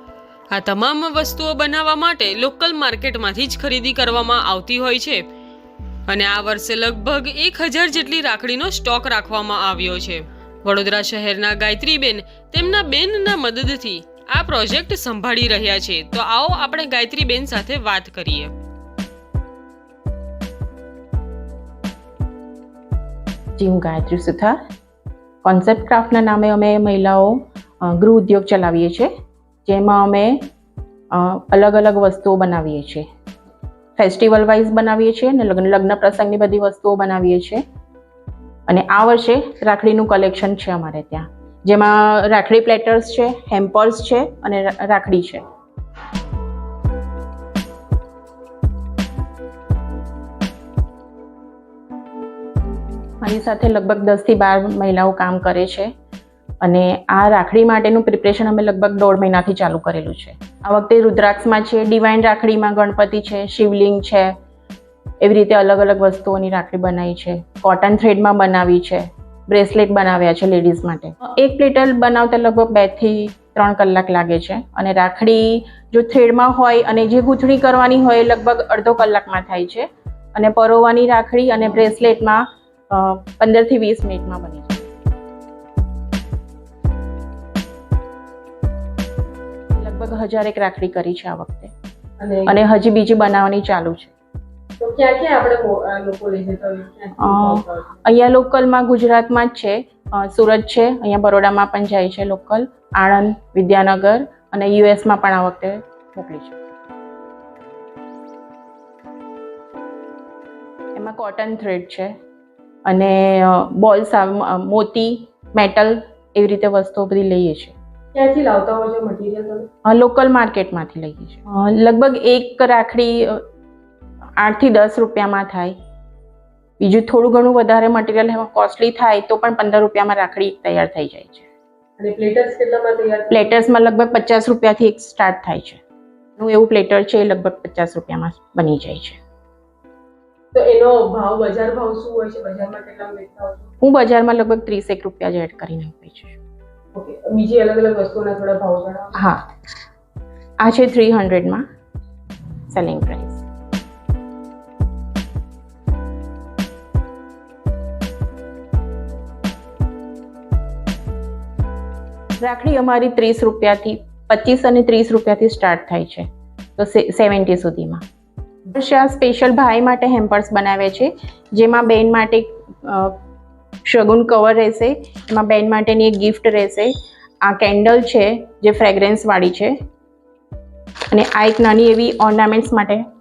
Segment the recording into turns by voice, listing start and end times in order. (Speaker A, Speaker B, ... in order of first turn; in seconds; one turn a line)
Speaker A: 0.5-5.2
Speaker A: 6.1-18.5
Speaker B: 23.6-24.6
Speaker B: 25.4-29.1
Speaker B: 29.6-30.4
Speaker B: 31.1-33.0
Speaker B: 34.0-37.6
Speaker B: 38.7-45.4
Speaker B: 53.2-55.9
Speaker B: 56.6-64.3
Speaker B: 65.2-84.9
Speaker B: 89.7-91.7
Speaker C: 92.2-92.6
Speaker B: 92.5-94.1
Speaker C: 94.8-98.0
Speaker B: 97.2-106.6
Speaker B: 110.9-112.1
Speaker B: 112.8-117.7
Speaker C: 118.1-119.7
Speaker B: 119.8-123.4
Speaker B: 124.4-125.7
Speaker B: 126.8-131.5
Speaker C: 132.0-133.5
Speaker B: 133.3-135.8
Speaker B: 136.4-139.2
Speaker C: 140.5-143.7
Speaker B: 143.8-146.4
Speaker C: 146.9-149.1
Speaker B: 149.1-149.5
Speaker B: 150.6-151.6
Speaker B: 152.7-153.4
Speaker B: 162.4-166.3
Speaker B: 166.8-168.0
Speaker B: 168.7-173.2
Speaker B: 173.8-179.7
Speaker B: 181.1-183.0